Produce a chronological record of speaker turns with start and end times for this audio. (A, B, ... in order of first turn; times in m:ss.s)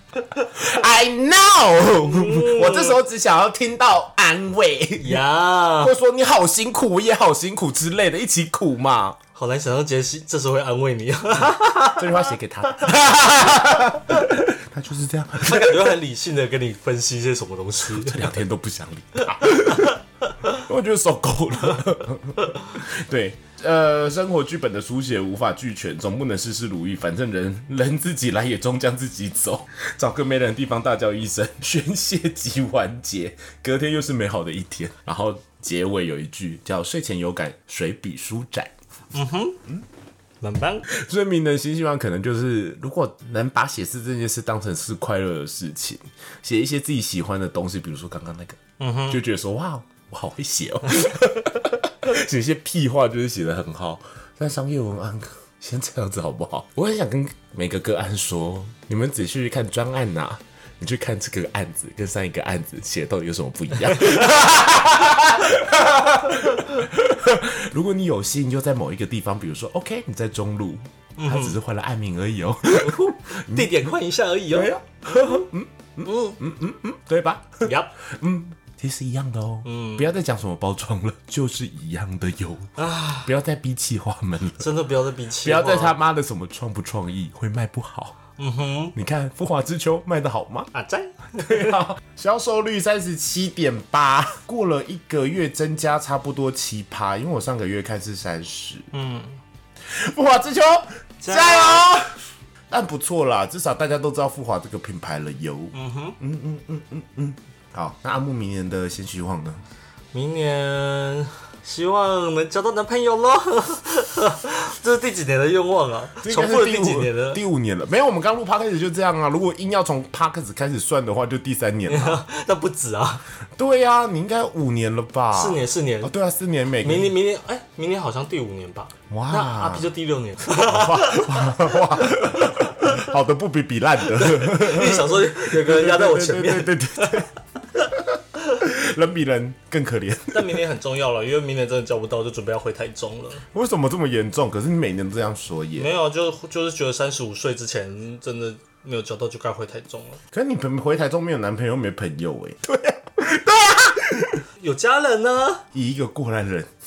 0:00.4-0:05.2 A
0:02.0-0:03.0 B
0:05.0-0:05.9 B
0:05.8-0:09.2 A
0:09.4-0:12.3 B
0:11.9-0:16.0 A
0:15.4-0:18.3 B
0:17.9-0:38.7 A
0:19.5-0:20.0 B
0:39.1-0:39.6 B
0:40.4-0:40.9 B
0:40.9-1:13.9 A
0:48.8-0:49.2 B
1:11.2-1:11.6 B
1:12.8-1:15.4 B
1:14.5-1:22.7 A
1:16.0-1:16.4 B
1:17.6-1:17.9 B
1:19.6-1:20.1 B
1:22.8-1:23.3 B
1:23.2-1:24.7 A
1:24.6-1:26.0 B
1:25.4-1:28.2 A
1:28.4-1:29.0 B
1:29.0-1:30.7 A
1:30.7-1:31.8 B
1:31.4-1:38.9 A
1:38.9-1:39.4 B
1:39.9-1:42.1 A
1:41.2-1:41.9 B
1:42.7-1:49.6 A
1:45.7-1:46.2 B
1:50.1-1:57.4 B
1:56.2-2:02.2 A
2:01.9-2:03.2 B
2:03.6-2:07.1 A
2:05.3-2:06.1 B
2:06.8-2:12.9 B
2:09.1-2:09.9 A
2:10.5-2:17.3 A
2:14.1-2:17.2 B
2:17.9-2:20.6 A
2:20.3-2:23.4 B
2:23.5-2:25.9 A
2:25.8-2:30.2 B
2:30.3-2:34.4 A
2:34.6-2:35.6 B
2:35.7-2:36.7 A